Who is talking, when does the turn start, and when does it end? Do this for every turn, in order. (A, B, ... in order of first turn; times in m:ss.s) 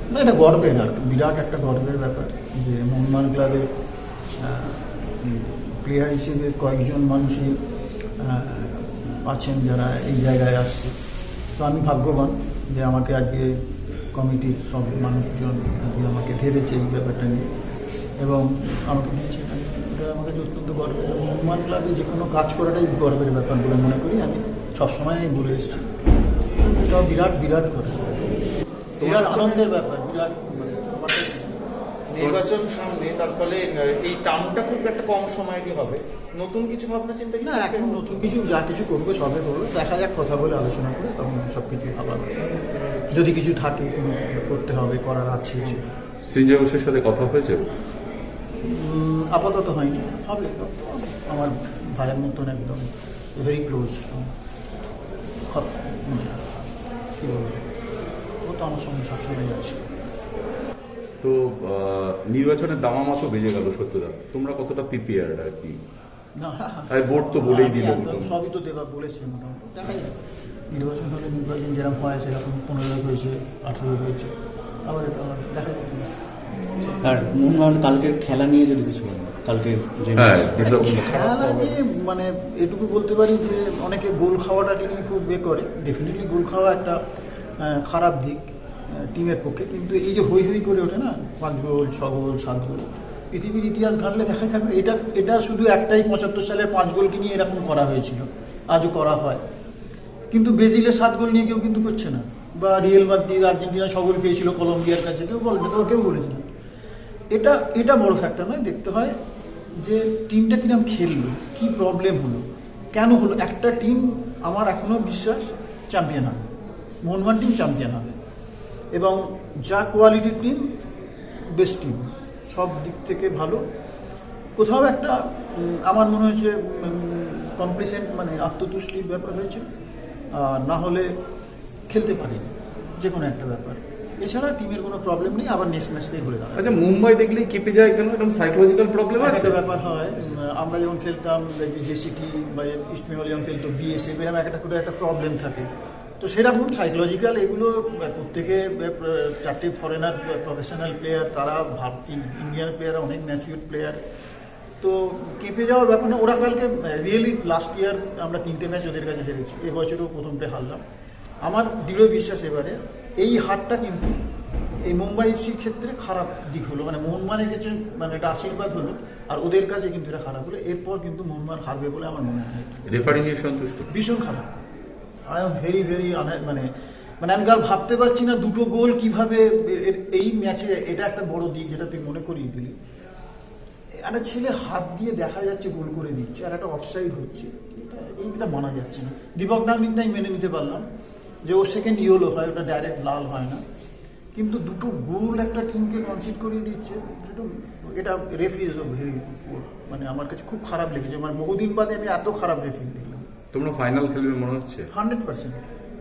0:00.1-0:03.7 A
0:04.4-0:07.5 A
0:08.2-0:10.9 A
0:11.6-0:13.5 A
0:14.1-0:17.5 A
0:18.2-0:25.9 A
0:26.6-0:28.3 A
0:29.0-0:31.6 A
0:29.0-0:29.4 B
0:29.1-0:29.6 C
0:32.1-0:38.3 C
0:32.2-0:32.4 B
0:37.4-0:42.6 A
0:42.6-0:43.0 C
0:43.1-0:45.8 A
0:46.2-0:47.6 B
0:48.6-0:54.3 A
0:55.5-0:57.6 A
0:58.4-0:59.8 A
1:01.2-1:05.8 B
1:06.4-1:10.2 A
1:06.9-1:08.4 B
1:10.7-1:14.3 A
1:14.9-1:16.1 A
1:16.8-1:21.2 D
1:20.2-1:21.0 B
1:20.6-1:27.0 A
1:20.7-1:21.8 C
1:27.6-1:39.4 A
1:40.3-1:46.5 A
1:47.3-1:49.2 A
1:49.8-1:56.5 A
1:57.0-1:58.2 A
1:58.9-2:00.6 A
2:01.5-2:03.6 A
2:04.6-2:09.6 A
2:10.3-2:11.1 A
2:11.9-2:16.8 A
2:16.6-2:19.6 B
2:19.2-2:25.7 A
2:26.2-2:34.0 A
2:34.8-2:40.8 A
2:41.4-2:44.2 A
2:44.8-2:53.3 A
2:52.9-2:53.9 B
2:53.9-2:54.5 A
2:55.3-2:56.7 A
2:57.2-3:02.7 A
3:04.0-3:10.8 A
3:11.5-3:13.6 A
3:14.3-3:23.3 A
3:23.5-3:24.9 B
3:24.9-3:25.6 A